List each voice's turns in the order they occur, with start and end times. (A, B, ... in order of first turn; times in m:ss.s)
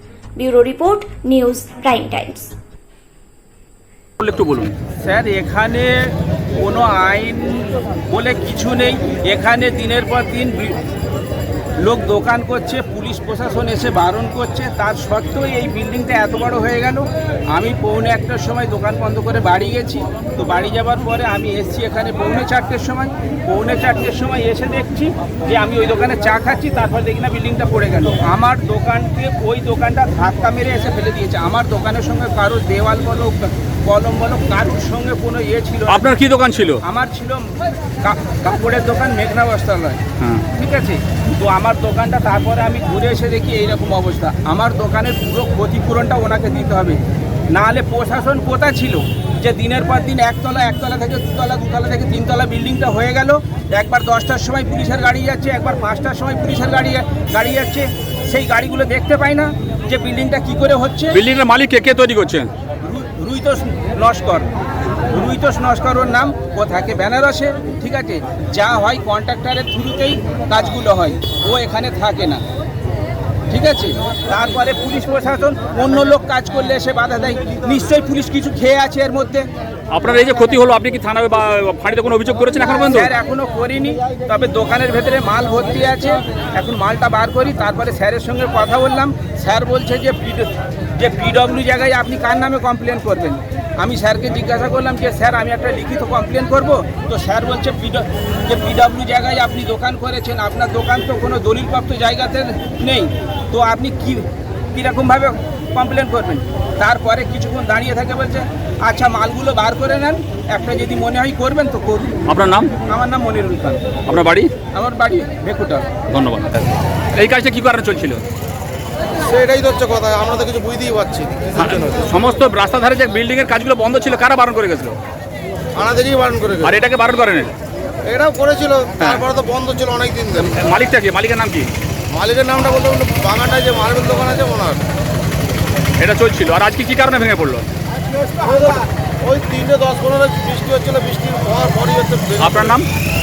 0:00.4-0:02.5 A
0:04.2-0:04.8 B
0:04.9-0:10.8 C
0:11.8-0:36.1 C
0:35.9-0:36.8 B
0:36.8-0:47.0 C
0:40.2-0:40.5 B
0:47.5-1:01.2 C
1:01.1-1:02.5 B
1:02.8-1:04.5 C
1:05.1-1:12.4 C
1:13.5-1:19.4 C
1:19.9-1:23.1 B
1:22.9-1:52.2 C
1:52.3-1:52.7 B
1:52.8-1:53.8 C
1:54.1-1:54.5 B
1:54.7-1:55.9 C
1:56.1-1:56.6 B
1:57.2-1:58.2 B
1:59.2-2:02.1 D
2:01.6-2:05.0 B
2:05.8-2:06.8 D
2:06.6-2:07.5 B
2:08.0-2:10.5 D
2:10.5-2:11.7 B
2:12.1-2:14.8 D
2:16.0-2:17.7 B
2:18.2-2:22.8 D
2:22.4-2:22.9 B